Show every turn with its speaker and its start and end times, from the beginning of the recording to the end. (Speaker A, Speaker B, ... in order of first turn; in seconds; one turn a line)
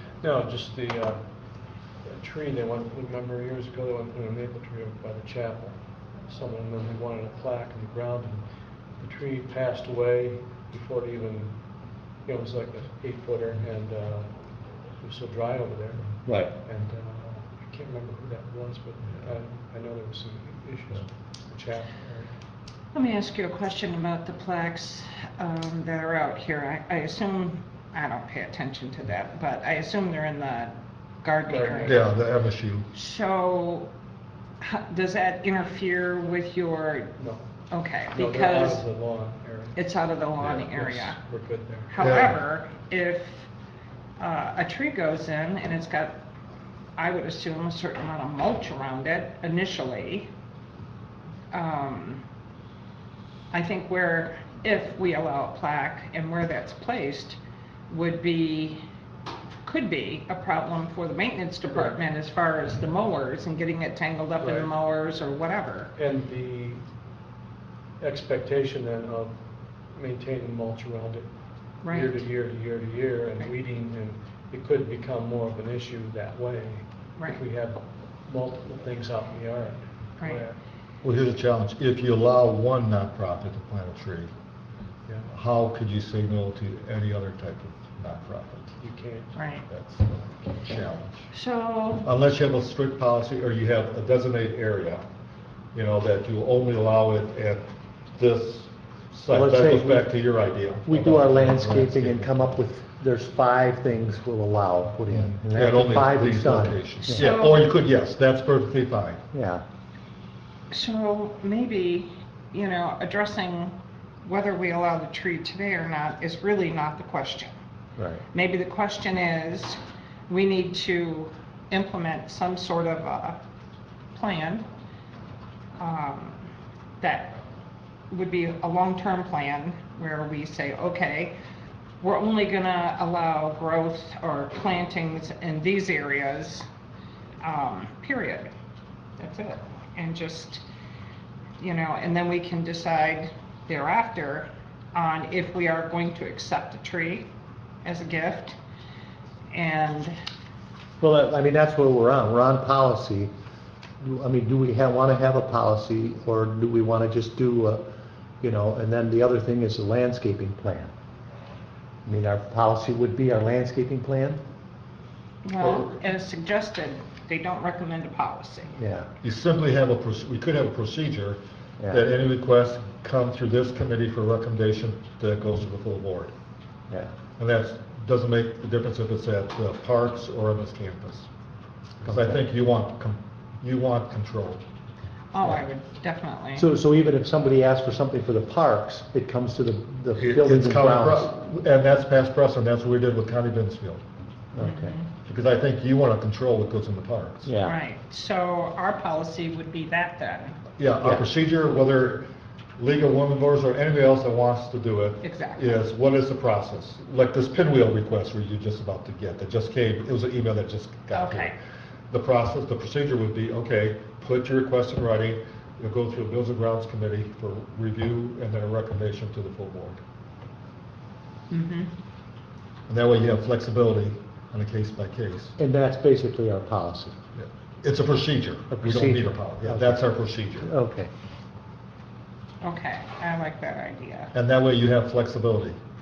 Speaker A: 0.2-1.2
Speaker A: 2.0-8.4
Speaker A: 9.0-22.4
Speaker B: 16.2-16.5
Speaker C: 22.9-32.1
Speaker A: 31.5-32.1
Speaker D: 31.8-32.9
Speaker C: 32.9-33.9
Speaker C: 34.6-37.1
Speaker A: 37.2-37.5
Speaker C: 37.7-38.8
Speaker A: 38.1-42.0
Speaker C: 39.7-41.2
Speaker C: 41.9-43.5
Speaker D: 42.0-42.4
Speaker C: 44.2-46.1
Speaker C: 47.0-50.3
Speaker C: 51.5-52.2
Speaker C: 53.5-57.4
Speaker C: 57.9-58.8
Speaker C: 59.6-65.9
Speaker A: 61.7-62.0
Speaker A: 64.4-64.7
Speaker A: 66.0-66.8
Speaker A: 68.0-80.6
Speaker C: 71.8-72.2
Speaker D: 81.0-84.3
Speaker A: 85.0-85.3
Speaker D: 85.3-88.7
Speaker A: 88.8-89.4
Speaker C: 89.3-89.6
Speaker D: 89.7-91.3
Speaker C: 91.3-92.0
Speaker D: 92.0-95.0
Speaker D: 95.7-102.5
Speaker B: 99.3-100.1
Speaker B: 100.8-107.3
Speaker D: 105.1-109.2
Speaker C: 107.1-107.7
Speaker B: 109.3-109.6
Speaker C: 110.7-117.5
Speaker B: 118.0-118.2
Speaker C: 118.3-123.4
Speaker C: 124.1-124.7
Speaker C: 125.8-126.4
Speaker C: 127.0-127.4
Speaker C: 128.1-131.3
Speaker C: 132.0-136.7
Speaker C: 137.4-138.5
Speaker C: 139.2-140.6
Speaker C: 141.6-147.3
Speaker C: 147.8-148.6
Speaker C: 149.5-150.2
Speaker B: 151.0-153.3
Speaker B: 154.0-157.8
Speaker B: 158.4-160.9
Speaker B: 162.1-164.4
Speaker C: 165.4-168.8
Speaker D: 165.6-165.9
Speaker B: 168.8-169.1
Speaker D: 169.2-176.3
Speaker D: 177.4-181.3
Speaker D: 182.0-184.6
Speaker B: 182.0-182.4
Speaker C: 185.3-186.7
Speaker B: 186.6-191.3
Speaker D: 190.2-194.0
Speaker B: 194.5-194.9
Speaker C: 194.6-195.1
Speaker D: 195.2-197.5
Speaker B: 197.4-197.8
Speaker C: 197.6-200.6
Speaker D: 200.8-202.3
Speaker D: 202.8-211.5
Speaker C: 205.2-205.8
Speaker C: 211.1-211.5
Speaker D: 212.1-220.0
Speaker C: 221.5-221.9
Speaker D: 222.9-225.6
Speaker B: 225.6-227.2
Speaker D: 227.3-230.7
Speaker B: 228.7-231.1
Speaker C: 232.6-234.3
Speaker D: 234.3-235.8